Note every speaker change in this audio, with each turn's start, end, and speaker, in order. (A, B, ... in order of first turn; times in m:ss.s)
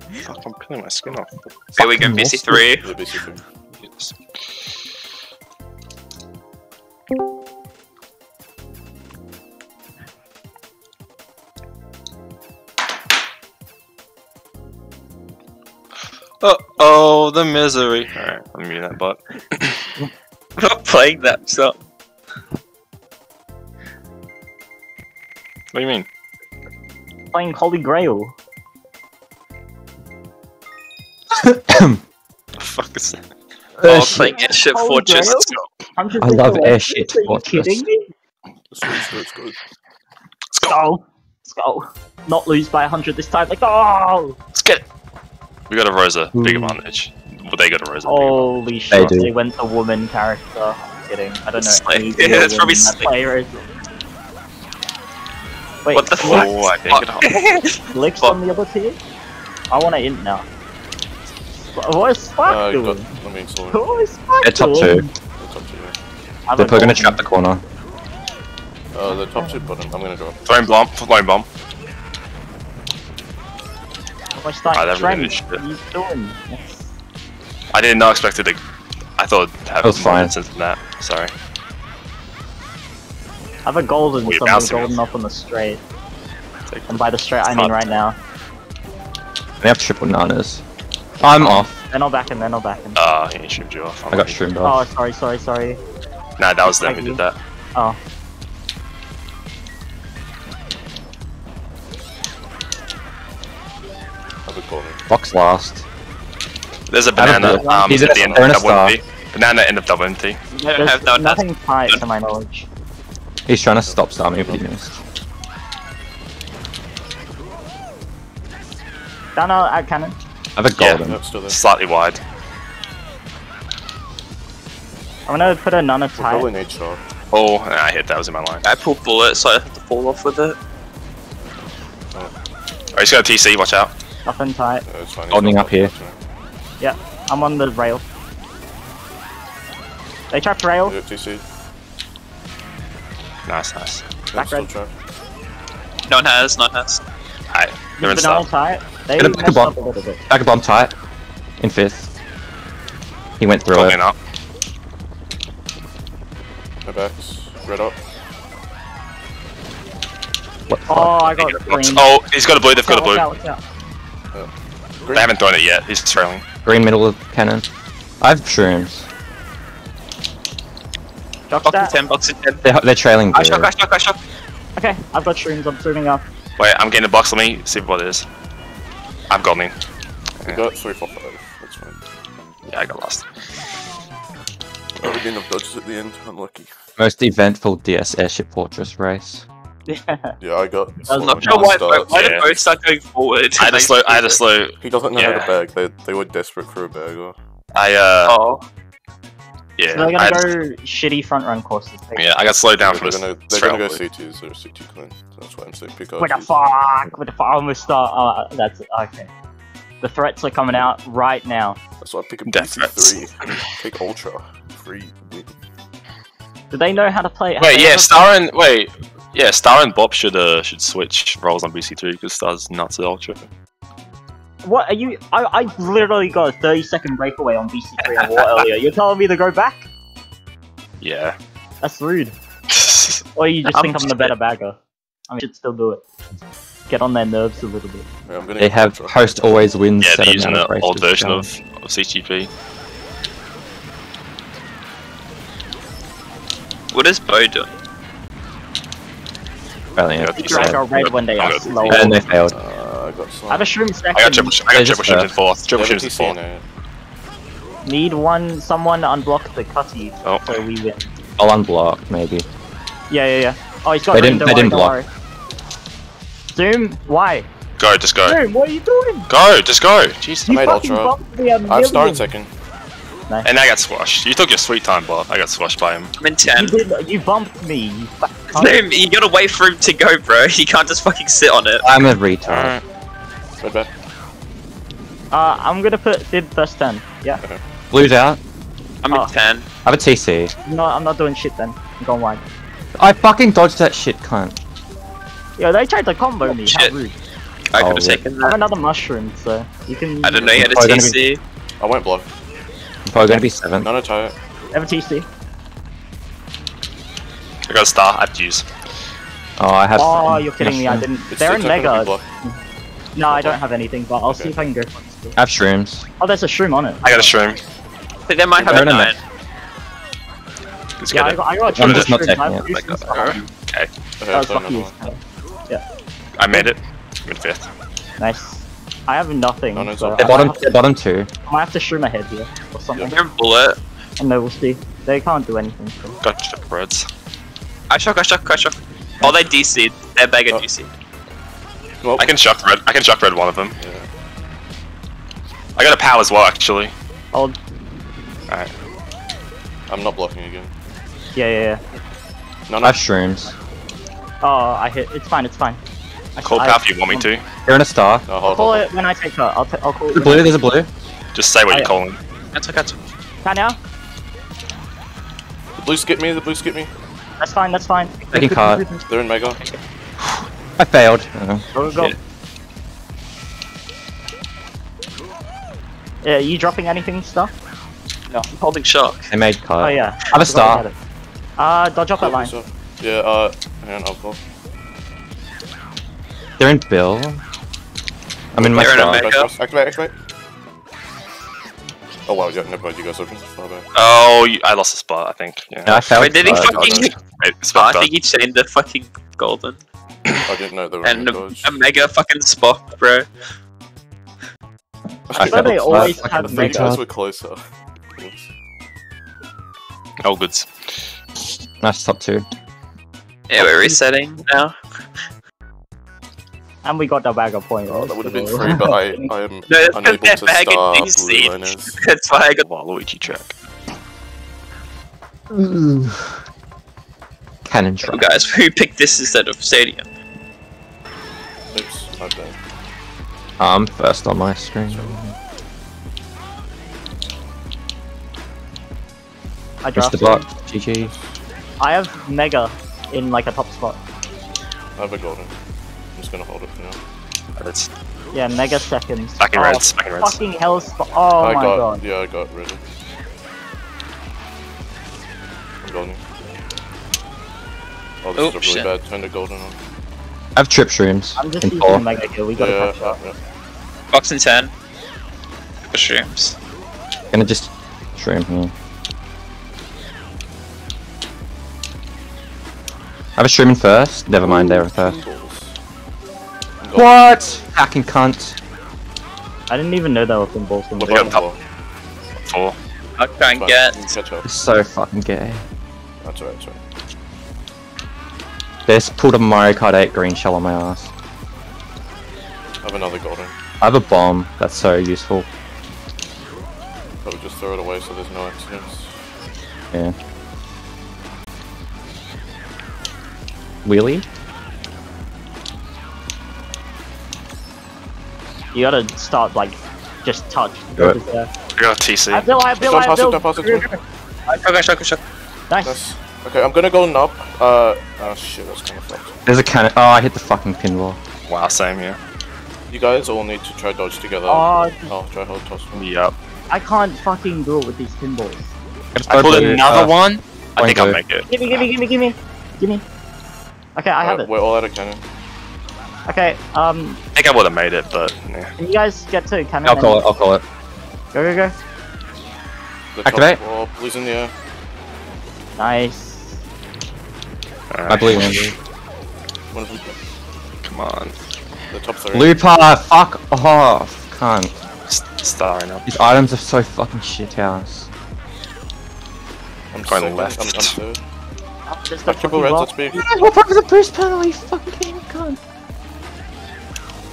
0:00.2-0:01.3 A
0:01.7-0:02.6 B
0:01.8-0:02.9 C
0:02.8-0:03.4 D
0:03.8-0:04.5 A
0:16.4-0:19.9 A
0:20.6-0:21.8 C
0:25.7-0:26.1 A
0:27.3-0:28.4 E
0:31.3-0:32.0 B
0:32.6-0:33.2 A
0:33.8-0:34.3 B
0:33.8-0:35.5 C
0:34.1-0:38.1 E
0:36.2-0:37.8 B
0:38.7-0:39.6 D
0:40.5-0:40.8 A
0:40.6-0:44.4 E
0:44.5-0:44.8 A
0:45.7-0:48.5 A
0:46.3-0:46.8 B
0:48.0-0:53.6 E
0:48.9-0:49.3 B
0:51.6-0:53.1 C
0:55.8-0:56.5 E
0:55.9-0:58.4 C
0:56.2-0:57.2 A
0:57.9-0:59.0 E
0:59.7-1:00.4 E
1:01.7-1:03.1 E
1:02.4-1:04.0 D
1:03.7-1:05.1 E
1:04.4-1:05.1 B
1:05.4-1:06.0 D
1:06.5-1:07.2 E
1:06.6-1:07.6 B
1:08.9-1:10.4 D
1:09.1-1:09.6 E
1:10.4-1:11.5 A
1:14.4-1:16.9 E
1:14.7-1:15.6 A
1:17.7-1:18.6 A
1:19.2-1:21.3 A
1:19.8-1:20.3 B
1:23.6-1:25.8 E
1:24.2-1:25.0 A
1:26.7-1:27.9 A
1:26.9-1:28.2 E
1:29.6-1:30.6 B
1:31.2-1:31.8 B
1:31.7-1:33.0 E
1:33.0-1:34.4 A
1:34.1-1:34.9 B
1:34.6-1:35.8 E
1:36.4-1:37.4 A
1:36.6-1:37.2 E
1:44.4-1:45.0 D
1:45.1-1:45.8 B
1:46.9-1:50.4 A
1:47.2-1:48.0 E
1:47.2-1:49.0 B
1:47.8-1:48.4 D
1:50.5-1:52.0 C
1:50.8-1:52.7 E
1:53.5-1:55.0 B
1:53.8-1:54.7 D
1:59.3-2:00.2 E
2:00.6-2:01.2 B
2:00.7-2:02.2 A
2:01.0-2:01.6 D
2:05.2-2:06.5 E
2:06.2-2:07.0 D
2:07.3-2:08.6 A
2:08.6-2:10.6 C
2:12.9-2:13.9 A
2:14.2-2:14.8 E
2:14.8-2:16.2 D
2:15.3-2:15.9 B
2:16.8-2:18.0 E
2:20.3-2:20.9 E
2:20.8-2:21.4 D
2:23.4-2:24.1 A
2:24.3-2:24.9 D
2:24.3-2:24.7 E
2:26.1-2:27.0 C
2:27.5-2:28.4 A
2:28.0-2:30.2 E
2:29.2-2:29.8 B
2:30.3-2:30.9 B
2:31.6-2:32.1 B
2:33.4-2:34.0 B
2:33.7-2:34.2 A
2:36.8-2:38.0 D
2:40.7-2:41.2 B
2:40.9-2:42.1 E
2:41.4-2:43.2 A
2:42.8-2:43.6 E
2:45.0-2:45.3 D
2:45.1-2:46.4 A
2:46.6-2:47.7 B
2:48.2-2:49.1 B
2:51.5-2:51.9 E
2:51.6-2:52.6 C
2:52.6-2:53.7 B
2:53.3-2:54.2 C
2:54.8-2:56.2 E
2:56.6-2:58.2 A
2:59.3-2:59.7 A
3:00.4-3:02.0 D
3:02.7-3:03.3 A
3:05.0-3:06.7 D
3:07.0-3:09.4 B
3:09.9-3:10.4 E
3:10.4-3:12.3 D
3:11.1-3:14.4 C
3:11.4-3:12.5 A
3:13.6-3:15.5 A
3:14.8-3:17.4 D
3:17.7-3:18.3 A
3:18.2-3:18.6 C
3:19.8-3:20.5 A
3:19.9-3:22.3 E
3:22.2-3:24.0 A
3:22.8-3:26.5 D
3:26.2-3:29.3 E
3:30.0-3:31.8 E
3:32.0-3:35.5 D
3:32.5-3:33.7 A
3:36.7-3:38.3 E
3:37.6-3:43.4 A
3:44.6-3:49.8 E
3:51.0-3:51.4 A
3:51.8-3:52.3 E
3:52.7-3:53.2 A
3:53.4-3:54.8 E
3:53.7-3:54.3 C
3:55.3-3:56.0 E
3:56.9-3:58.1 E
3:58.3-3:59.3 D
3:58.6-4:01.5 B
4:00.0-4:02.5 A
4:06.9-4:07.7 C
4:10.0-4:10.8 B
4:10.2-4:12.2 A
4:10.4-4:12.2 E
4:11.9-4:12.5 B
4:12.5-4:13.7 D
4:13.5-4:14.6 E
4:14.1-4:16.4 A
4:14.7-4:15.3 B
4:15.7-4:16.6 D
4:17.8-4:21.1 E
4:20.2-4:20.6 A
4:21.4-4:22.4 B
4:23.1-4:25.1 E
4:24.1-4:25.0 B
4:26.5-4:27.5 E
4:27.8-4:28.4 A
4:28.2-4:29.3 E
4:29.3-4:30.6 A
4:30.5-4:32.3 E
4:30.5-4:31.2 D
4:31.7-4:32.5 D
4:33.4-4:36.1 A
4:36.2-4:36.8 C
4:36.6-4:38.8 E
4:38.5-4:41.8 C
4:41.8-4:42.8 B
4:42.5-4:42.8 A
4:43.6-4:43.9 D
4:45.3-4:47.4 E
4:47.9-4:48.4 B
4:49.0-4:49.7 C
4:49.8-4:50.5 B
4:50.6-4:52.4 E
4:53.0-4:54.6 B
4:55.6-4:57.2 E
4:56.5-4:56.9 C
4:57.7-4:58.6 C
4:57.8-4:58.2 B
4:58.4-5:00.4 E
5:00.2-5:01.4 C
5:00.3-5:00.6 D
5:00.5-5:01.2 B
5:01.8-5:02.3 D
5:03.0-5:03.9 B
5:03.8-5:04.4 D
5:04.7-5:05.3 E
5:07.7-5:08.7 A
5:09.6-5:11.1 B
5:10.0-5:12.6 E
5:11.3-5:12.2 D
5:13.2-5:15.4 E
5:13.3-5:13.6 D
5:14.3-5:14.6 D
5:15.4-5:16.1 B
5:16.2-5:17.1 E
5:17.0-5:17.6 A
5:18.3-5:19.2 C
5:18.6-5:19.2 B
5:21.0-5:22.1 A
5:21.1-5:23.5 E
5:21.7-5:22.7 B
5:22.8-5:23.9 A
5:24.2-5:25.0 D
5:24.3-5:25.8 E
5:26.4-5:27.7 A
5:28.2-5:30.8 E
5:29.7-5:30.5 D
5:30.2-5:31.3 B
5:31.5-5:33.1 E
5:33.0-5:33.8 C
5:34.2-5:36.2 E
5:36.2-5:37.1 A
5:37.9-5:40.9 C
5:42.0-5:42.4 D
5:42.2-5:43.8 A
5:43.8-5:44.1 D
5:45.8-5:46.9 A
5:49.9-5:50.7 D
5:51.3-5:51.8 E
5:52.7-5:53.0 D
5:52.8-5:53.5 B
5:54.4-5:55.8 E
5:56.4-5:57.3 E
5:56.4-5:57.4 A
5:57.7-5:58.3 B
5:58.3-5:58.9 D
5:58.4-6:00.6 E
6:00.1-6:00.9 B
6:01.3-6:02.2 A
6:02.5-6:03.0 C
6:03.4-6:03.8 E
6:05.8-6:06.9 D
6:07.4-6:08.2 E
6:08.3-6:09.1 C
6:08.3-6:08.8 B
6:09.1-6:09.6 D
6:10.8-6:11.7 B
6:11.7-6:12.1 E
6:16.2-6:17.5 E
6:18.3-6:19.3 C
6:19.3-6:20.9 B
6:19.8-6:21.0 E
6:21.6-6:22.5 E
6:22.2-6:24.4 D
6:26.6-6:27.4 B
6:28.5-6:29.3 B
6:28.6-6:30.1 D
6:28.8-6:29.5 C
6:32.3-6:33.9 D
6:33.9-6:38.1 A
6:35.9-6:37.0 B
6:36.2-6:37.2 C
6:37.8-6:39.8 C
6:40.5-6:41.7 D
6:41.0-6:43.3 C
6:45.3-6:47.6 D
6:45.3-6:47.0 B
6:45.4-6:47.0 E
6:48.2-6:48.5 D
6:50.2-6:51.1 A
6:51.8-6:52.5 B
6:53.5-6:54.8 C
6:53.6-6:53.9 B
6:56.8-6:59.3 E
6:57.9-7:02.0 D
6:59.7-7:02.6 C
7:02.6-7:03.6 A
7:05.5-7:06.4 B
7:07.6-7:08.3 B
7:08.0-7:10.1 C
7:11.7-7:12.6 D
7:13.6-7:15.3 B
7:14.9-7:15.2 D
7:19.8-7:20.5 E
7:20.0-7:21.1 B
7:21.8-7:24.0 E
7:25.0-7:25.5 D
7:26.2-7:27.0 D
7:27.6-7:27.9 A
7:28.3-7:32.0 E
7:29.4-7:30.4 A
7:31.4-7:32.8 D
7:35.8-7:36.2 D
7:38.2-7:39.8 D
7:38.4-7:38.9 C
7:40.6-7:42.0 B
7:41.4-7:43.2 E
7:42.6-7:43.4 D
7:44.1-7:44.7 C
7:45.9-7:46.6 C
7:47.3-7:48.7 B
7:53.4-7:55.2 B
7:54.4-7:55.8 D
7:56.8-7:57.3 D
7:57.0-7:58.6 B
7:59.7-8:01.4 E
8:01.0-8:01.6 D
8:01.1-8:01.4 A
8:02.4-8:02.8 A
8:03.2-8:04.2 C
8:03.5-8:04.5 D
8:04.4-8:05.6 B
8:06.2-8:06.8 D
8:08.9-8:11.1 B
8:12.8-8:13.6 D
8:13.8-8:15.5 B
8:17.2-8:19.2 D
8:23.8-8:24.3 B
8:28.7-8:31.5 E
8:31.8-8:32.5 A
8:32.3-8:34.0 E
8:32.8-8:33.9 D
8:34.5-8:35.2 C
8:35.7-8:36.0 E
8:35.8-8:39.4 D
8:39.4-8:41.2 B
8:41.5-8:42.2 A
8:42.9-8:46.1 D
8:44.5-8:45.1 E
8:45.9-8:46.4 A
8:46.7-8:48.7 E
8:49.1-8:50.1 B
8:49.3-8:51.9 A
8:50.8-8:51.2 B
8:51.5-8:53.0 E
8:54.0-8:54.5 E
8:54.2-8:55.2 D
8:56.3-8:57.2 E
8:57.3-8:58.7 A
8:58.8-9:00.3 E
8:59.8-9:00.6 B
9:01.3-9:01.8 E
9:03.1-9:04.5 D
9:03.2-9:03.6 B
9:05.8-9:06.6 E
9:07.9-9:08.6 A
9:08.1-9:08.8 B
9:09.7-9:10.1 D
9:10.8-9:11.3 A
9:11.9-9:12.5 D
9:12.3-9:14.8 B
9:15.1-9:16.2 A
9:16.0-9:18.1 B
9:19.9-9:21.2 D
9:20.0-9:21.0 A
9:21.9-9:22.9 E
9:22.2-9:23.2 D
9:23.1-9:25.6 B